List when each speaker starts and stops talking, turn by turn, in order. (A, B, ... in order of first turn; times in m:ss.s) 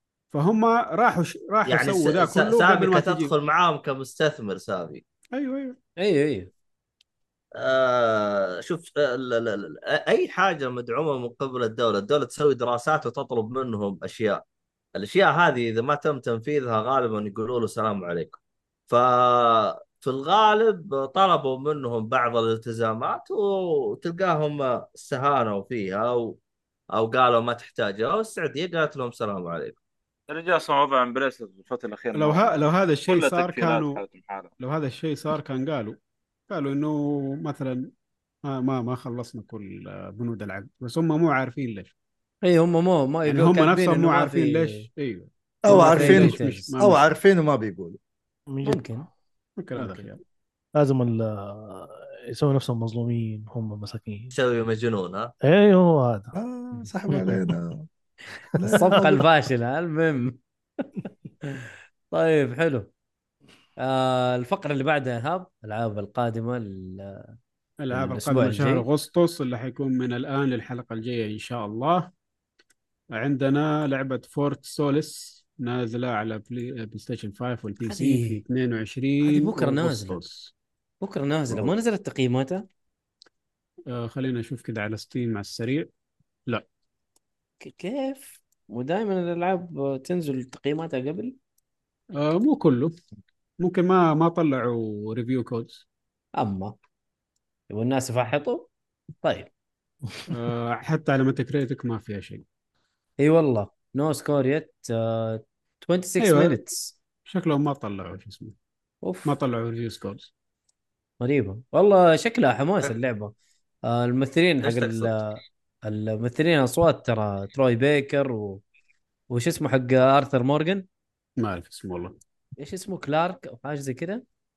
0:00.3-0:03.3 A
0:01.6-0:05.0 B
0:05.3-0:05.8 A
0:06.0-0:06.5 C
0:07.6-0:14.4 B
0:15.0-0:26.4 B
0:26.9-0:29.8 B
0:30.3-0:32.5 D
0:32.1-0:34.0 A
0:33.1-0:34.5 D
0:34.6-0:36.0 A
0:36.5-0:37.9 A
0:38.4-0:41.9 A
0:42.4-0:44.8 C
0:43.2-0:47.1 A
0:45.6-0:48.0 E
0:45.7-0:46.7 C
0:48.5-0:48.9 F
0:48.6-0:49.1 C
0:49.6-0:50.2 A
0:49.8-0:50.0 C
0:50.8-0:54.3 F
0:54.3-0:55.3 B
0:55.4-0:56.3 F
0:56.3-0:57.9 E
0:58.5-0:59.2 E
0:58.6-1:00.4 C
1:01.4-1:02.9 C
1:03.8-1:07.3 C
1:07.8-1:12.1 A
1:07.9-1:08.8 C
1:13.1-1:20.5 A
1:17.8-1:18.4 C
1:19.2-1:20.2 C
1:21.0-1:22.6 C
1:21.5-1:21.7 E
1:23.9-1:25.9 A
1:27.6-1:31.4 C
1:32.2-1:32.9 A
1:33.6-1:35.8 A
1:36.4-1:36.7 C
1:37.7-1:38.7 C
1:39.2-1:39.5 C
1:40.3-1:42.4 A
1:43.2-1:46.9 C
1:46.2-1:46.6 A
1:47.2-1:48.6 A
1:49.0-1:49.3 C
1:49.2-1:50.3 A
1:51.2-1:53.3 C
1:53.8-1:58.6 C
1:54.6-1:55.2 B
1:59.3-2:00.8 C
2:01.4-2:02.2 A
2:02.6-2:04.2 C